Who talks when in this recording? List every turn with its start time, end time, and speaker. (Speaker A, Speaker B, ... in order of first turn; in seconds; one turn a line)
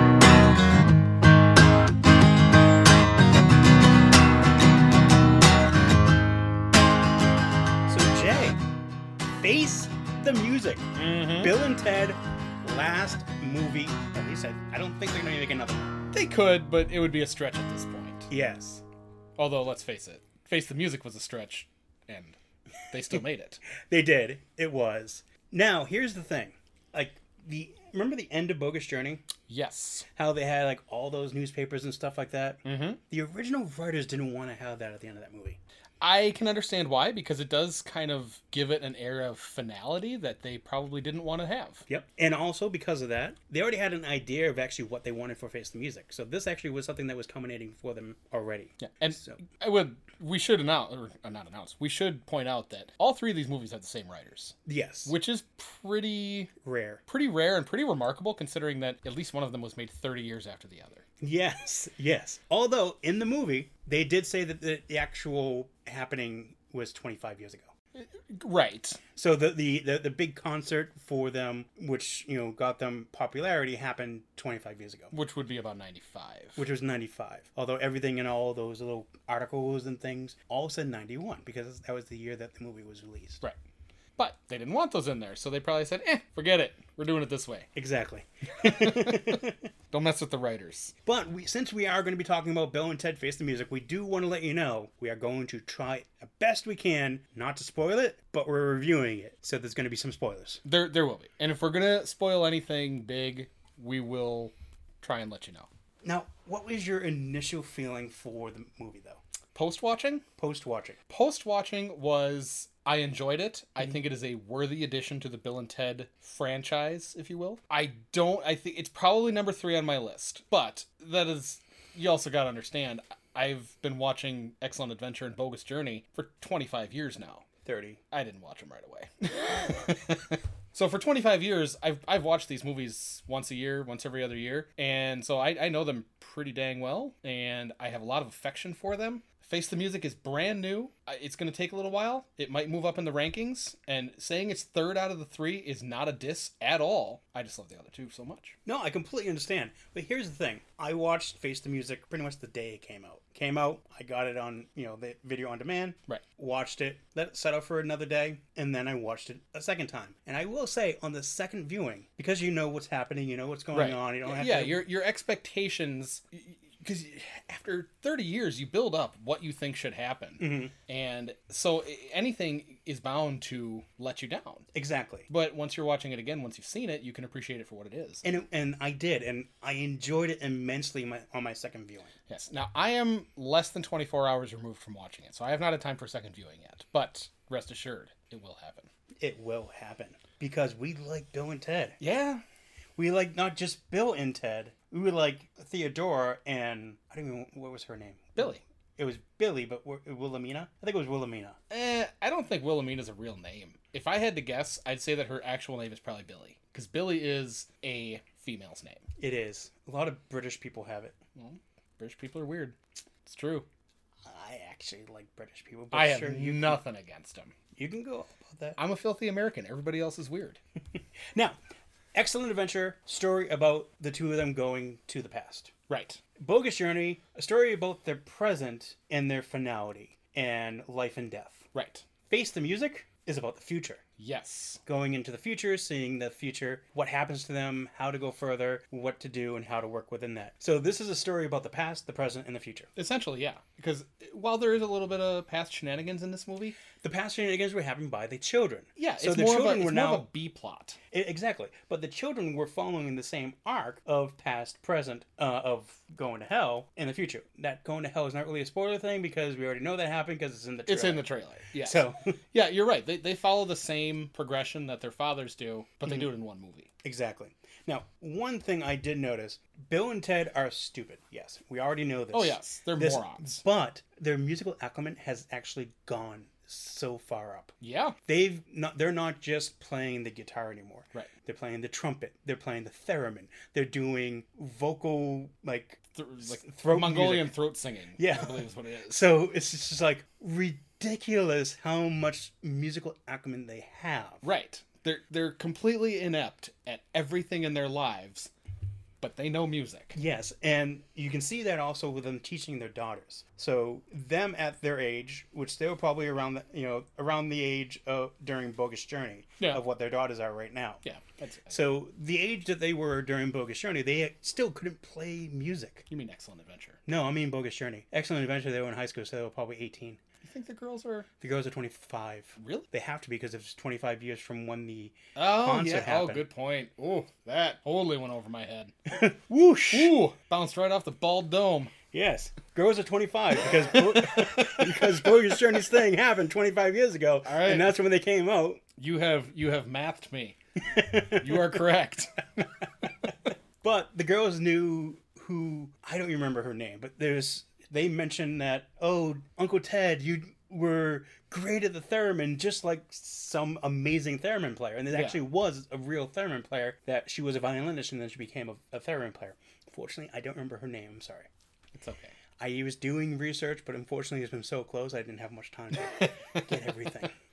Speaker A: 7.9-8.6
Speaker A: 9.3-15.8
Speaker B: 10.9-11.5
Speaker B: 16.1-18.3
Speaker A: 18.3-18.8
Speaker B: 19.4-22.4
Speaker B: 22.9-23.6
Speaker A: 23.9-29.2
Speaker B: 29.5-30.1
Speaker A: 30.1-35.6
Speaker B: 32.6-33.0
Speaker B: 36.0-41.8
Speaker A: 41.9-49.4
Speaker B: 48.8-54.5
Speaker A: 54.6-55.1
Speaker B: 55.0-56.5
Speaker A: 56.6-57.0
Speaker B: 57.1-61.0
Speaker A: 61.2-67.7
Speaker B: 67.9-69.0
Speaker A: 69.2-75.1
Speaker B: 75.1-76.6
Speaker A: 76.5-83.4
Speaker B: 84.2-87.7
Speaker A: 87.7-89.6
Speaker B: 88.6-89.4
Speaker B: 89.9-90.9
Speaker A: 91.0-100.6
Speaker B: 100.6-105.7
Speaker A: 106.0-109.2
Speaker B: 109.5-110.2
Speaker A: 110.4-111.0
Speaker B: 111.1-127.4
Speaker A: 127.6-128.0
Speaker B: 128.1-148.6
Speaker A: 148.7-164.8
Speaker B: 163.7-174.7
Speaker A: 170.4-170.7
Speaker A: 174.7-175.3
Speaker B: 175.3-178.2
Speaker A: 178.2-182.1
Speaker B: 182.3-188.9
Speaker A: 189.2-192.0
Speaker B: 192.0-192.4
Speaker A: 193.0-201.6
Speaker B: 198.3-198.6
Speaker B: 201.7-209.0
Speaker A: 209.2-211.1
Speaker B: 211.3-213.7
Speaker A: 214.2-216.8
Speaker B: 215.9-217.5
Speaker A: 217.7-218.8
Speaker B: 218.8-220.6
Speaker A: 222.1-225.7
Speaker B: 225.9-226.2
Speaker A: 226.4-231.7
Speaker B: 231.7-232.0
Speaker A: 232.3-234.0
Speaker B: 234.2-234.8
Speaker A: 234.8-242.9
Speaker B: 242.9-246.8
Speaker A: 247.0-250.3
Speaker B: 249.0-251.0
Speaker A: 251.1-261.3
Speaker B: 260.9-266.9
Speaker A: 261.8-262.4
Speaker A: 267.0-287.6
Speaker B: 272.3-273.6
Speaker B: 277.8-278.1
Speaker B: 286.1-289.2
Speaker A: 288.2-294.4
Speaker B: 294.4-298.5
Speaker B: 299.2-300.2
Speaker A: 300.1-311.0
Speaker B: 311.0-311.8
Speaker A: 311.7-316.1
Speaker B: 316.1-317.0
Speaker A: 317.1-320.2
Speaker B: 320.4-321.3
Speaker A: 321.4-326.4
Speaker B: 322.6-322.9
Speaker B: 325.3-328.9
Speaker A: 329.1-330.1
Speaker B: 329.9-331.9
Speaker A: 332.1-338.8
Speaker B: 333.8-335.5
Speaker B: 337.4-338.0
Speaker B: 339.0-340.6
Speaker A: 340.9-341.8
Speaker B: 341.3-342.4
Speaker A: 343.8-361.5
Speaker B: 355.1-355.4
Speaker B: 361.9-362.3
Speaker A: 362.6-367.3